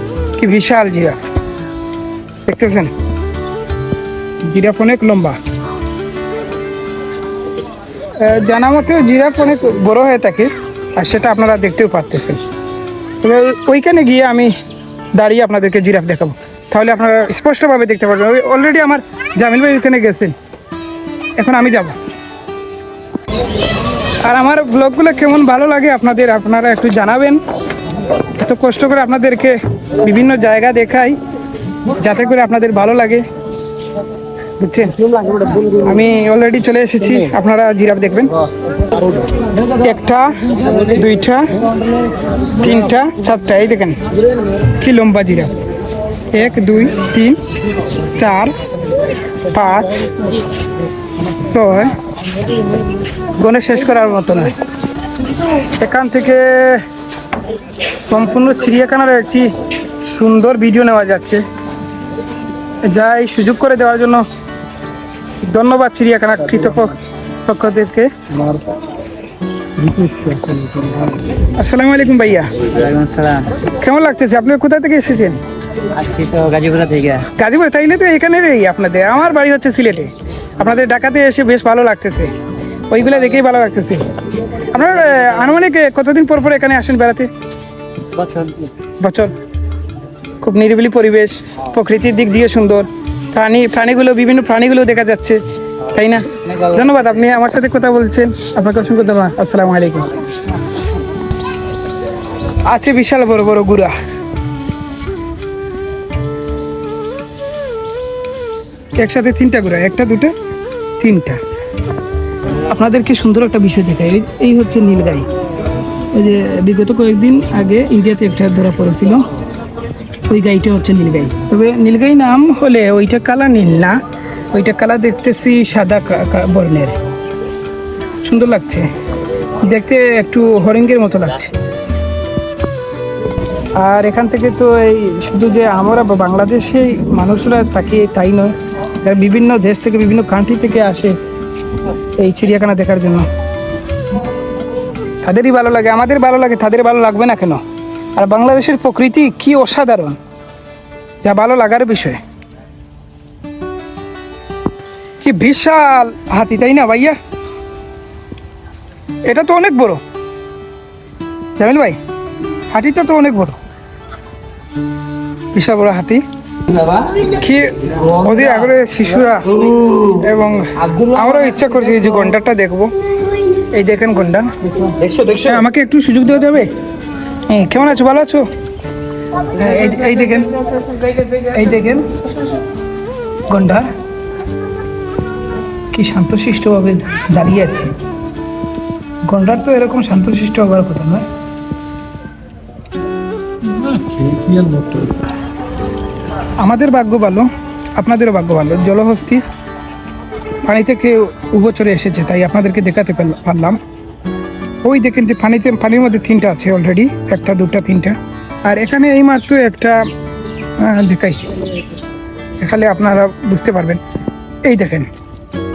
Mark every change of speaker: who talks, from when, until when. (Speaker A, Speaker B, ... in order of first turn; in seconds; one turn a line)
Speaker A: 0.4-1.2
Speaker A: 2.5-2.9
Speaker A: 4.4-5.4
Speaker A: 8.2-12.4
Speaker A: 13.2-14.5
Speaker A: 15.1-20.3
Speaker A: 21.4-22.0
Speaker A: 24.2-27.4
Speaker A: 28.3-31.2
Speaker A: 32.0-33.3
Speaker A: 34.6-38.4
Speaker A: 39.6-41.5
Speaker A: 42.6-44.0
Speaker A: 44.7-45.5
Speaker A: 46.3-47.4
Speaker A: 48.1-48.6
Speaker A: 49.4-50.2
Speaker A: 51.3-52.0
Speaker A: 53.4-54.5
Speaker A: 55.8-56.9
Speaker A: 58.1-61.4
Speaker A: 62.9-64.3
Speaker A: 65.4-68.5
Speaker B: 70.0-71.0
Speaker A: 71.5-72.7
Speaker B: 72.7-73.5
Speaker A: 73.6-75.4
Speaker B: 75.8-77.3
Speaker A: 77.3-82.3
Speaker A: 82.9-84.2
Speaker A: 84.7-87.3
Speaker B: 88.1-88.7
Speaker A: 89.0-89.3
Speaker A: 90.4-100.2
Speaker B: 96.4-96.8
Speaker A: 102.7-103.9
Speaker A: 109.0-110.3
Speaker A: 111.0-111.4
Speaker A: 112.7-115.3
Speaker A: 116.1-119.3
Speaker A: 120.3-124.0
Speaker A: 124.5-127.0
Speaker A: 128.2-128.9
Speaker A: 129.6-131.6
Speaker A: 133.8-141.2
Speaker A: 142.2-143.3
Speaker A: 145.2-147.6
Speaker A: 148.2-150.2
Speaker A: 151.2-152.2
Speaker A: 155.2-157.2
Speaker A: 159.3-160.0
Speaker A: 161.6-162.0
Speaker A: 162.7-163.6
Speaker A: 165.5-166.2
Speaker A: 167.2-172.9
Speaker A: 173.7-176.7
Speaker A: 177.5-178.5
Speaker A: 179.5-182.3
Speaker A: 183.5-183.9
Speaker A: 185.9-187.9
Speaker A: 189.3-191.3
Speaker A: 196.6-199.4
Speaker A: 200.6-203.8
Speaker A: 204.8-210.1
Speaker A: 210.8-211.6
Speaker A: 212.6-214.0
Speaker A: 214.6-215.1